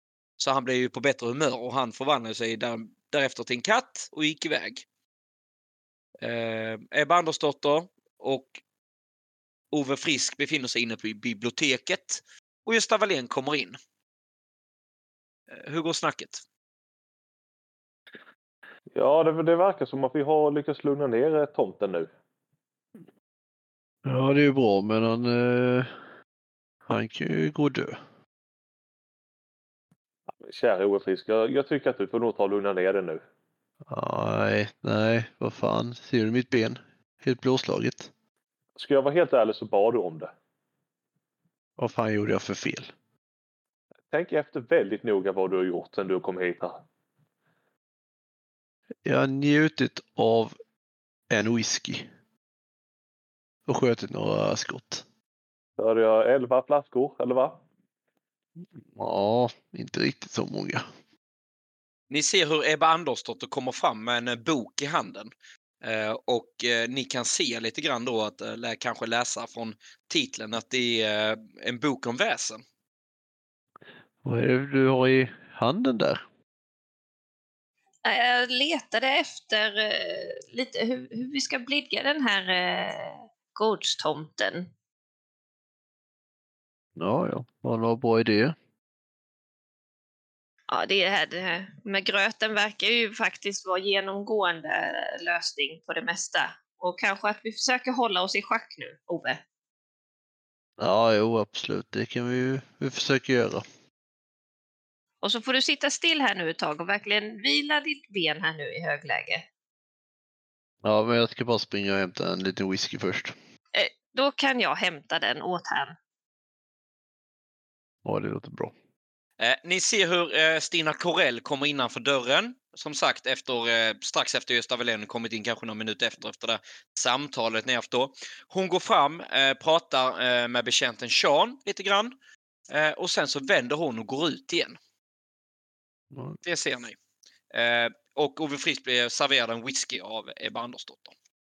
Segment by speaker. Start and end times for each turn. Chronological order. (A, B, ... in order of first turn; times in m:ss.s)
0:00.4-0:04.8 A
0:06.2-0:08.6 A
0:09.7-0:13.8 A
0:15.5-0:16.4 A
0:19.0-0:22.1 B
0:24.0-0:25.9 C
0:26.9-0:28.0 C
0:30.4-0:33.2 B
0:33.9-0:38.1 C
0:38.8-0:40.3 B
0:41.8-0:42.9 C
0:44.1-0:46.8 B
0:49.0-0:50.6 C
0:51.3-0:52.1 C
0:53.7-0:55.0 C
0:55.8-0:57.6 B
0:58.8-1:00.8 C
1:02.1-1:05.3 A
1:05.8-1:12.6 A
1:14.2-1:16.2 C
1:18.0-1:24.7 D
1:27.0-1:28.6 C
1:30.7-1:39.4 D
1:40.8-1:43.6 C
1:45.2-1:49.4 D
1:50.8-1:53.4 C
1:53.7-1:56.0 D
1:58.0-1:58.7 C
1:59.4-2:12.2 A
2:12.7-2:14.8 A
2:16.1-2:16.4 C
2:16.4-2:17.0 A
2:17.5-2:21.1 A